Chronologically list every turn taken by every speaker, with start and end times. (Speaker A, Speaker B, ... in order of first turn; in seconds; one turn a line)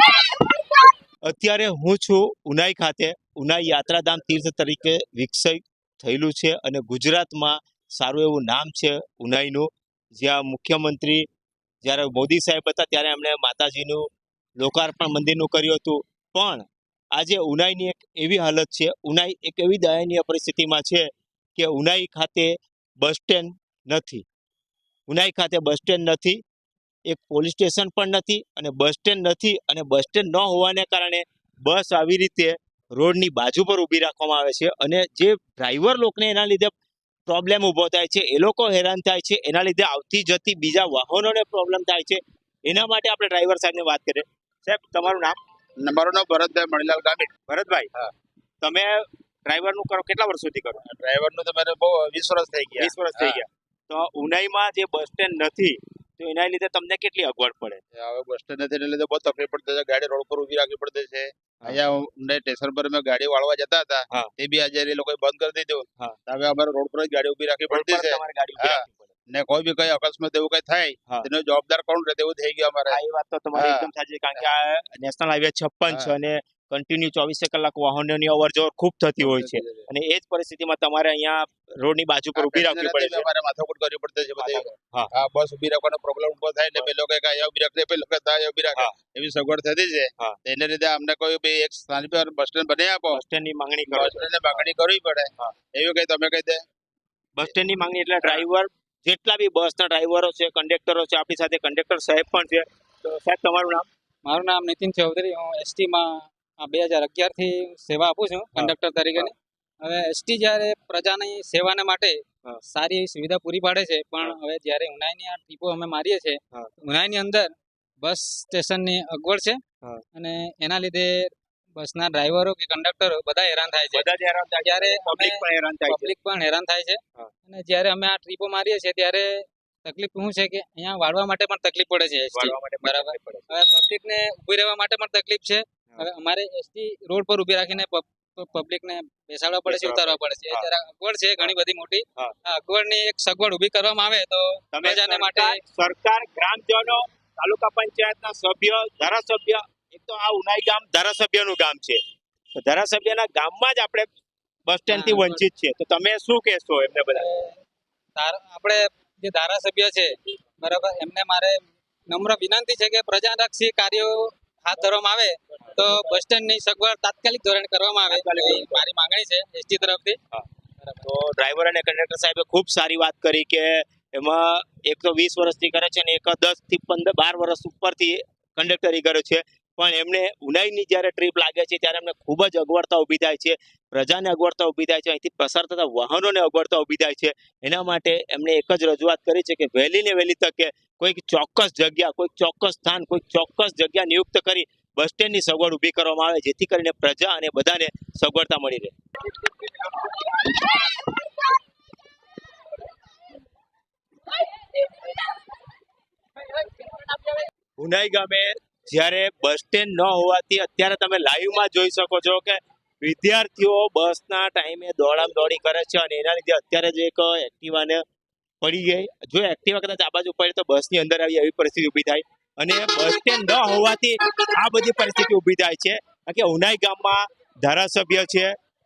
Speaker A: 1.2-11.3
Speaker A: 11.8-14.1
Speaker A: 14.6-24.2
Speaker A: 25.1-26.4
Speaker A: 27.1-36.7
Speaker A: 37.3-45.4
Speaker B: 45.8-47.3
Speaker A: 47.5-47.9
Speaker A: 48.6-50.8
Speaker B: 50.8-53.4
Speaker A: 52.8-57.8
Speaker B: 58.0-73.0
Speaker A: 67.7-69.1
Speaker A: 72.9-83.3
Speaker B: 73.5-74.4
Speaker B: 79.2-79.9
Speaker B: 82.3-93.2
Speaker A: 84.4-85.1
Speaker A: 93.1-94.7
Speaker B: 93.9-96.7
Speaker A: 97.4-103.9
Speaker C: 104.2-119.6
Speaker A: 108.5-109.3
Speaker C: 120.1-124.1
Speaker A: 123.9-126.1
Speaker C: 124.6-145.6
Speaker A: 132.3-133.6
Speaker A: 139.7-140.7
Speaker A: 144.7-152.0
Speaker A: 152.6-154.1
Speaker A: 154.7-157.3
Speaker C: 154.9-155.4
Speaker C: 157.2-157.6
Speaker C: 158.2-170.2
Speaker A: 168.1-168.8
Speaker A: 171.0-198.9
Speaker A: 207.8-218.0
Speaker A: 218.6-228.5